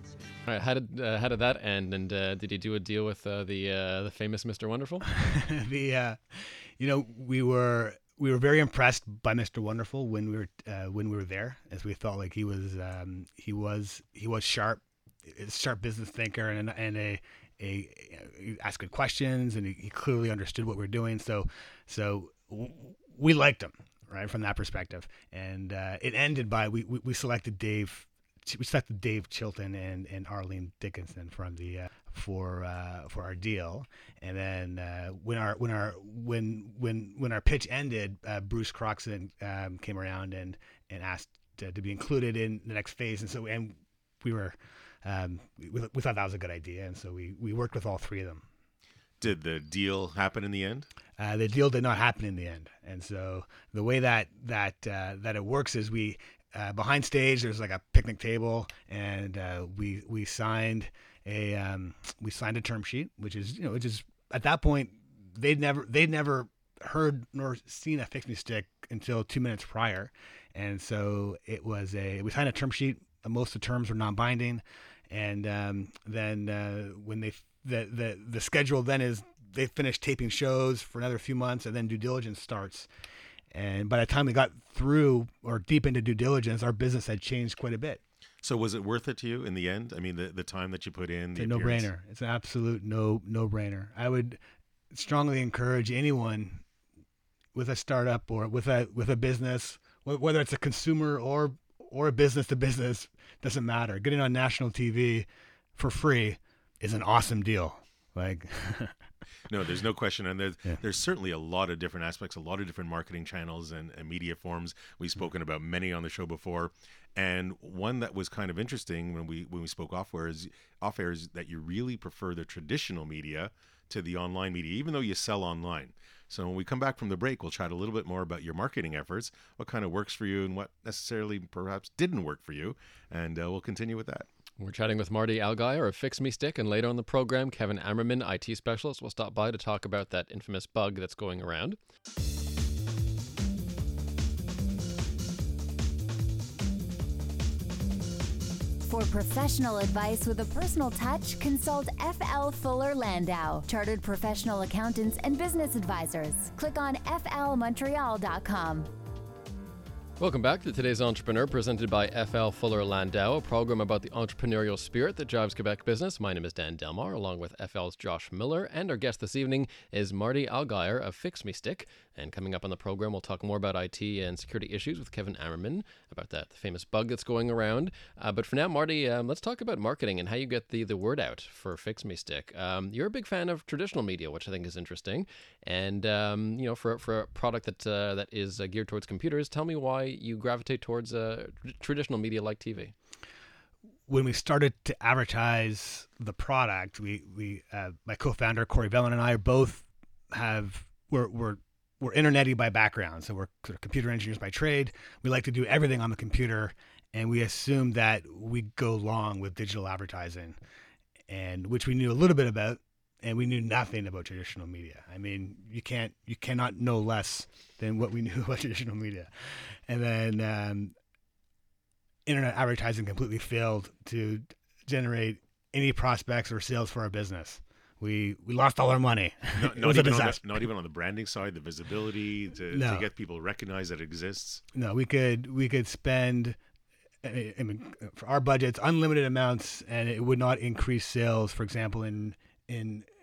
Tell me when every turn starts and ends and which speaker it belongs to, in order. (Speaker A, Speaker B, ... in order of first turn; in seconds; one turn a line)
Speaker A: 0.5-5.1
Speaker B: 5.2-48.4
Speaker C: 49.2-50.9
Speaker B: 51.2-82.9
Speaker B: 83.5-88.0
Speaker C: 88.4-91.9
Speaker B: 91.4-94.4
Speaker B: 94.9-96.6
Speaker B: 97.5-108.9
Speaker C: 109.5-134.3
Speaker A: 134.6-141.8
Speaker D: 148.9-158.9
Speaker A: 160.2-192.9
Speaker B: 194.1-210.6
Speaker B: 211.3-220.9
Speaker B: 222.3-230.6
Speaker C: 229.5-234.6
Speaker B: 232.7-233.1
Speaker B: 234.7-236.6
Speaker B: 237.2-243.1